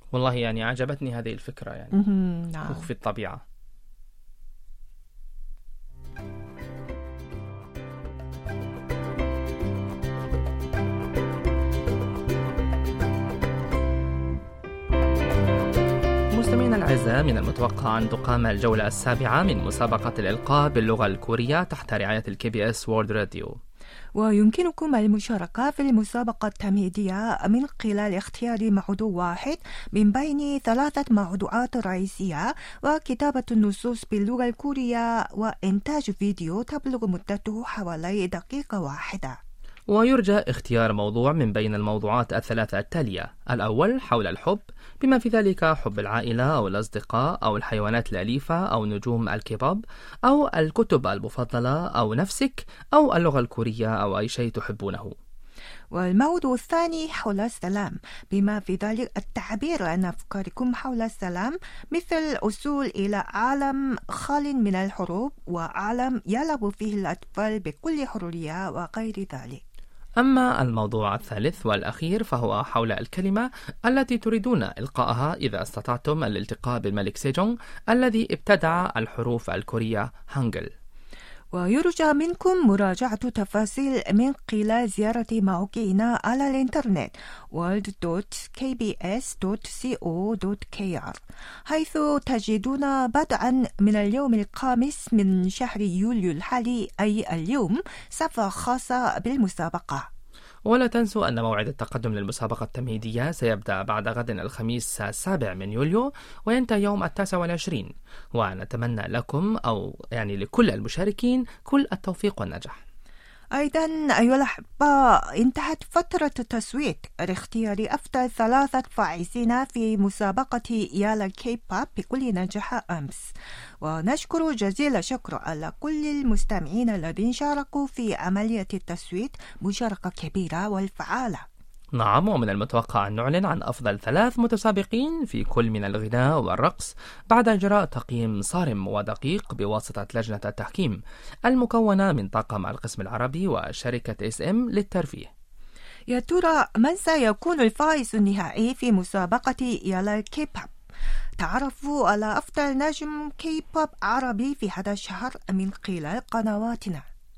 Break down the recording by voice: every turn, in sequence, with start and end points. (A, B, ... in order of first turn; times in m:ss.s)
0:00.1-0:01.9 A
0:01.9-0:02.8 B
0:02.6-0:03.4 A
0:16.3-0:23.6 A
0:24.2-0:39.4 B
0:39.9-0:55.1 A
0:55.9-1:09.6 B
1:10.2-1:20.7 A
1:21.5-1:31.2 B
1:31.7-1:40.1 B
1:40.6-1:52.8 A
1:53.5-2:03.3 B
2:03.8-2:11.4 B
2:12.0-2:25.3 A
2:26.1-2:30.7 B
2:31.4-2:37.0 B